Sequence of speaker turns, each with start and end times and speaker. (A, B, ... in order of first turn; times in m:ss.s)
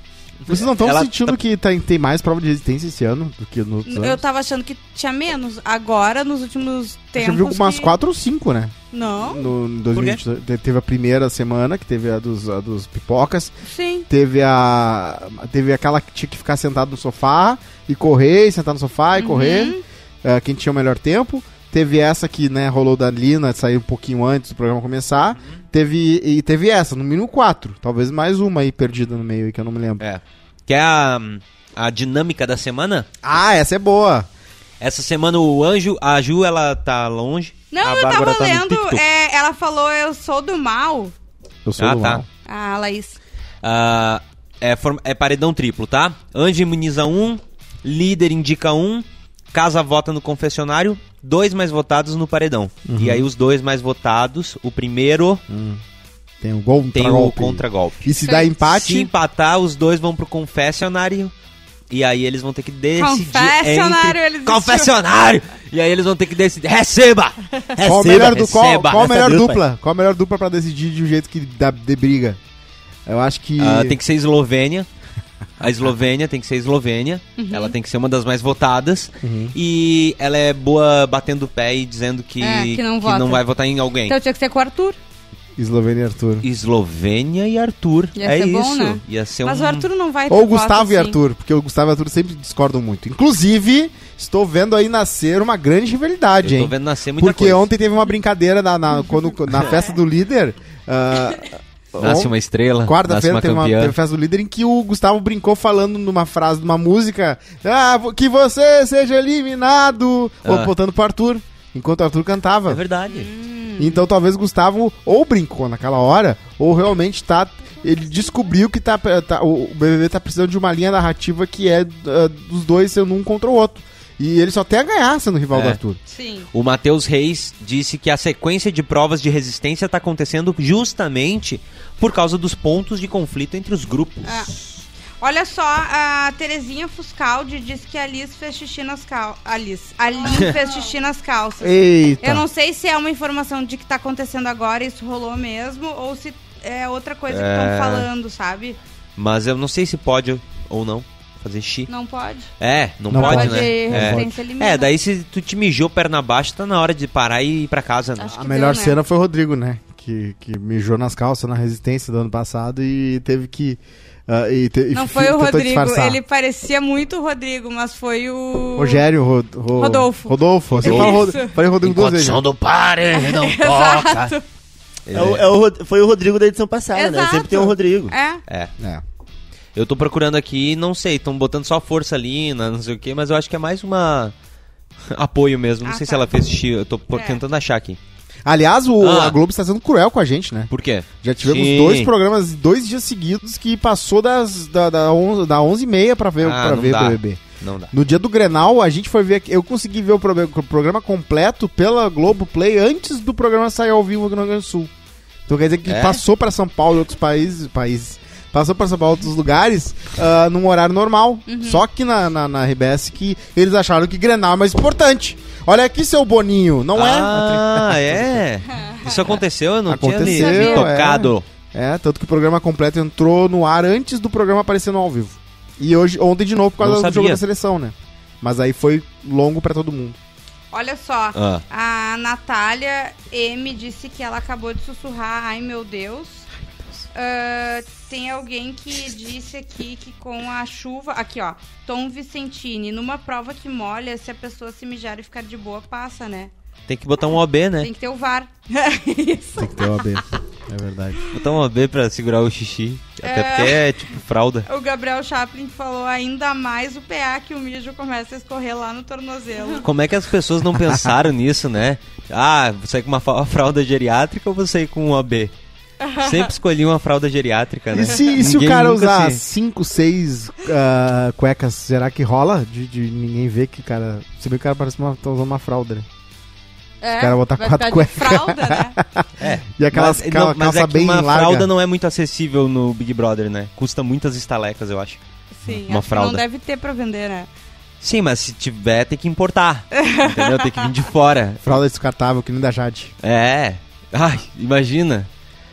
0:00.4-0:01.4 A
0:00.5-0:04.2 B
0:03.9-0:08.0 C
0:07.2-0:13.5 B
0:08.9-0:09.5 C
0:09.9-0:10.2 A
0:13.7-0:14.1 C
0:14.1-0:30.0 B
0:19.2-0:19.8 C
0:30.0-0:33.1 A
0:33.2-0:34.3 B
0:34.8-0:39.0 A
0:37.7-0:41.1 C
0:41.7-0:42.3 B
0:41.8-0:42.2 A
0:42.5-0:43.2 C
0:43.6-0:55.4 A
0:52.9-0:53.3 B
0:55.5-0:55.8 B
0:56.4-0:59.1 B
0:56.9-0:58.1 A
0:58.2-0:58.6 C
0:58.6-1:01.3 A
1:01.9-1:07.4 A
1:03.0-1:04.9 C
1:07.8-1:09.6 D
1:07.8-1:12.4 B
1:08.0-1:09.2 A
1:13.1-1:14.0 B
1:13.6-1:14.9 A
1:15.6-1:24.2 A
1:17.4-1:17.8 C
1:19.2-1:19.6 B
1:22.4-1:23.4 C
1:24.1-1:25.0 C
1:25.6-1:26.5 B
1:26.4-1:29.9 A
1:28.2-1:31.2 C
1:30.3-1:42.3 B
1:36.4-1:37.7 A
1:42.0-1:44.0 A
1:42.8-1:52.8 B
1:50.4-1:50.7 A
1:52.7-1:53.3 A
1:53.1-1:54.0 C
1:53.8-2:06.0 B
2:05.5-2:05.8 A
2:06.1-2:06.5 C
2:06.5-2:14.4 A
2:14.2-2:14.5 C
2:15.2-2:28.8 C
2:20.3-2:20.6 A
2:21.6-2:22.4 B
2:27.3-2:28.1 A
2:29.2-2:31.9 A
2:31.9-2:32.5 C
2:32.6-2:38.4 A
2:33.1-2:34.3 B
2:33.1-2:34.9 C
2:38.2-2:39.0 C
2:38.3-2:46.2 B
2:44.9-2:49.0 C
2:48.8-2:52.4 B
2:49.8-2:51.6 C
2:50.8-2:51.3 A
2:51.8-2:54.3 A
2:53.1-2:54.4 C
2:55.1-2:55.5 A
2:55.1-2:58.2 D
2:56.9-2:58.4 C
2:59.8-3:04.3 A
3:05.1-3:08.0 A
3:05.8-3:06.3 C
3:07.1-3:07.4 C
3:08.5-3:10.7 B
3:09.0-3:09.4 A
3:10.7-3:12.1 A
3:11.2-3:24.9 B
3:16.4-3:17.9 A
3:25.5-3:38.4 B
3:25.9-3:26.2 A
3:31.5-3:31.8 C
3:37.0-3:41.4 A
3:38.9-3:39.3 C
3:39.9-3:50.2 B
3:40.2-3:40.9 C
3:46.8-3:47.4 A
3:50.7-3:56.4 C
3:51.4-3:51.6 A
3:57.1-4:06.5 C
4:06.9-4:07.9 A
4:07.8-4:10.2 C
4:09.6-4:11.2 B
4:11.3-4:14.7 A
4:13.2-4:13.9 C
4:14.7-4:19.9 C
4:19.8-4:25.5 A
4:26.0-4:26.5 C
4:26.2-4:29.4 A
4:27.9-4:36.1 B
4:37.0-4:39.0 C
4:37.2-4:41.7 B
4:39.4-4:45.2 A
4:45.5-4:47.5 C
4:45.9-4:46.4 A
4:48.0-4:51.8 A
4:50.0-4:50.9 C
4:51.6-4:53.1 B
4:53.2-4:55.3 A